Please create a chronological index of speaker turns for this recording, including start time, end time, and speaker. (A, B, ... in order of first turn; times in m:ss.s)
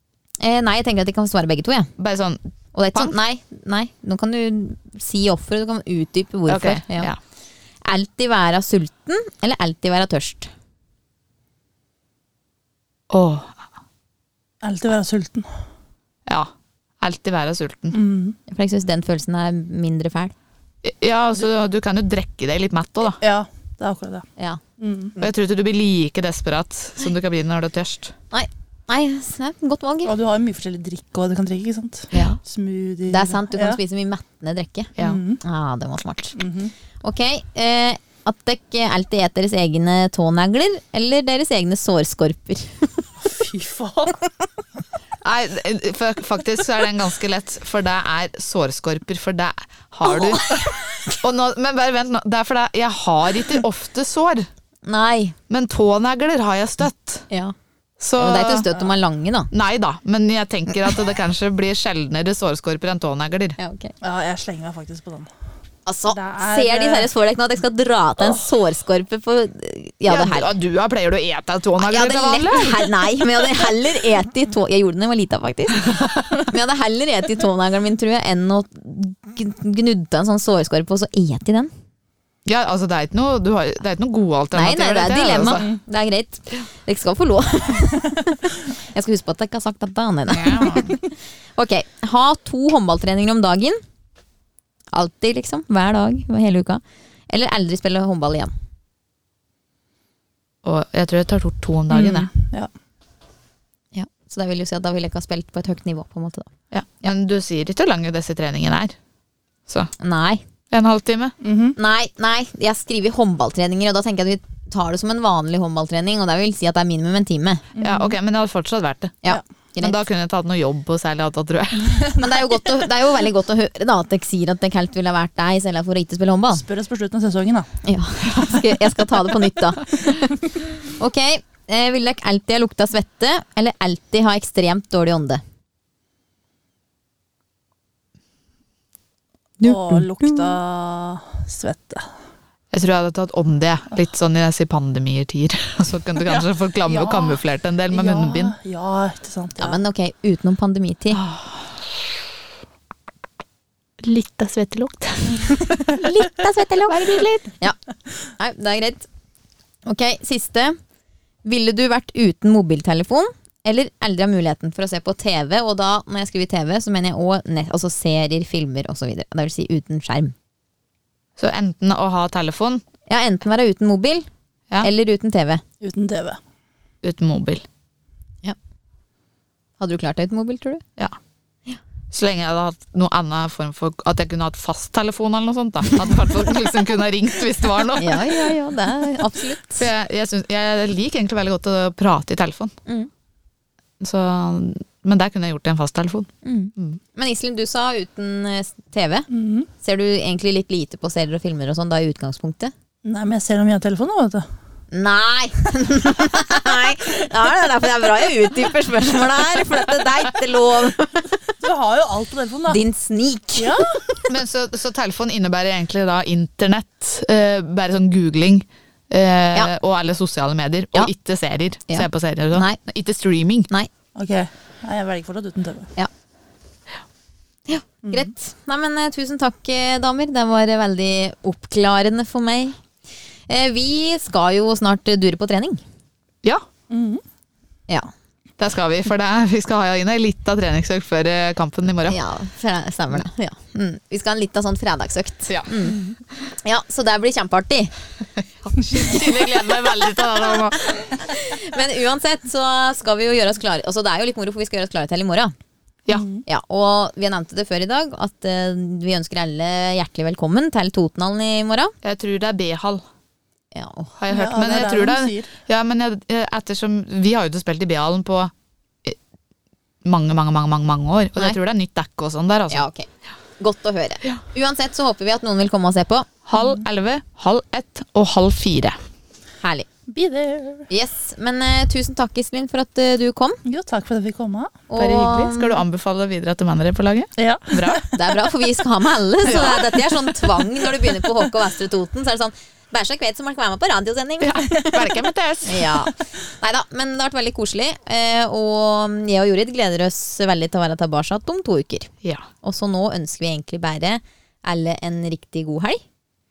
0:00.4-0:01.9 A
0:02.0-0:03.2 B
0:02.7-0:07.1 A
0:06.5-0:07.2 B
0:07.8-0:10.5 A
0:13.1-0:13.6 B
0:14.6-0:15.5 C
0:16.3-0:18.0 B
0:17.9-0:18.4 C
0:18.5-0:20.3 A
0:20.8-0:23.2 B
0:23.2-0:24.3 C
0:24.8-0:25.1 C
0:25.2-0:28.1 B
0:28.3-0:30.1 A
0:30.0-0:33.8 C
0:32.1-0:32.4 A
0:33.1-0:36.4 A
0:35.0-0:35.4 C
0:36.4-0:36.7 C
0:37.0-0:43.1 A
0:43.2-0:44.2 C
0:45.2-0:54.5 B
0:54.9-0:55.4 A
0:55.5-0:57.3 B
0:58.0-0:58.7 B
0:58.2-0:59.5 A
0:59.5-1:03.6 B
1:03.6-1:03.9 A
1:04.0-1:05.3 C
1:05.9-1:10.5 A
1:06.1-1:07.1 C
1:10.1-1:12.9 B
1:11.8-1:21.7 A
1:22.4-1:25.7 B
1:24.5-1:33.8 A
1:30.3-1:31.0 B
1:34.9-1:38.5 A
1:40.6-1:42.3 B
1:41.9-1:42.7 C
1:43.9-1:46.5 A
1:46.7-1:49.0 B
1:50.0-1:50.4 A
1:50.7-1:51.4 B
1:51.4-1:51.8 C
1:51.8-1:57.7 A
1:57.8-1:58.1 C
1:57.8-2:02.1 B
1:59.2-2:00.0 A
2:02.1-2:06.6 A
2:06.5-2:07.7 C
2:07.8-2:15.4 A
2:19.6-2:20.6 A
2:19.6-2:22.1 C
2:22.7-2:28.6 B
2:26.3-2:29.8 C
2:29.6-2:31.2 A
2:31.1-2:31.7 B
2:34.0-2:36.0 B
2:35.9-2:37.8 A
2:36.9-2:37.5 B
2:38.4-2:39.1 A
2:39.9-2:40.8 A
2:41.4-2:50.3 A
2:51.4-2:52.8 B
2:53.1-2:54.3 A
2:54.8-2:55.6 A
2:55.8-2:56.4 C
2:57.0-2:57.6 B
2:59.8-3:00.8 A
3:02.1-3:08.4 B
3:08.0-3:09.9 A
3:09.8-3:12.7 B
3:14.0-3:17.0 B
3:16.4-3:19.3 A
3:19.3-3:19.7 C
3:19.8-3:22.7 A
3:23.0-3:24.5 C
3:24.9-3:31.4 A
3:31.5-3:32.8 C
3:32.7-3:34.3 A
3:33.6-3:34.0 C
3:34.3-3:43.7 B
3:41.9-3:42.8 A
3:44.2-3:45.9 C
3:47.7-3:52.8 A
3:53.5-3:55.8 A
3:56.9-3:57.2 C
3:58.6-4:02.2 B
4:02.1-4:06.1 A
4:05.5-4:05.9 B
4:06.6-4:07.9 A
4:08.4-4:10.8 B
4:10.8-4:15.5 A
4:16.1-4:16.4 C
4:16.5-4:21.9 A
4:22.0-4:23.0 B
4:23.7-4:24.1 A
4:24.2-4:28.5 B
4:24.3-4:25.5 C
4:30.0-4:32.8 B
4:32.7-4:33.1 A
4:33.6-4:36.3 A
4:36.5-4:39.0 B
4:39.6-4:39.9 A
4:40.1-4:40.9 C
4:40.9-4:43.6 A
4:43.6-4:44.8 C
4:44.9-4:45.8 A
4:45.0-4:48.0 B
4:47.4-4:48.0 C
4:48.1-5:02.1 A
4:49.4-4:50.0 B
4:54.4-4:56.1 B
5:02.6-5:06.0 A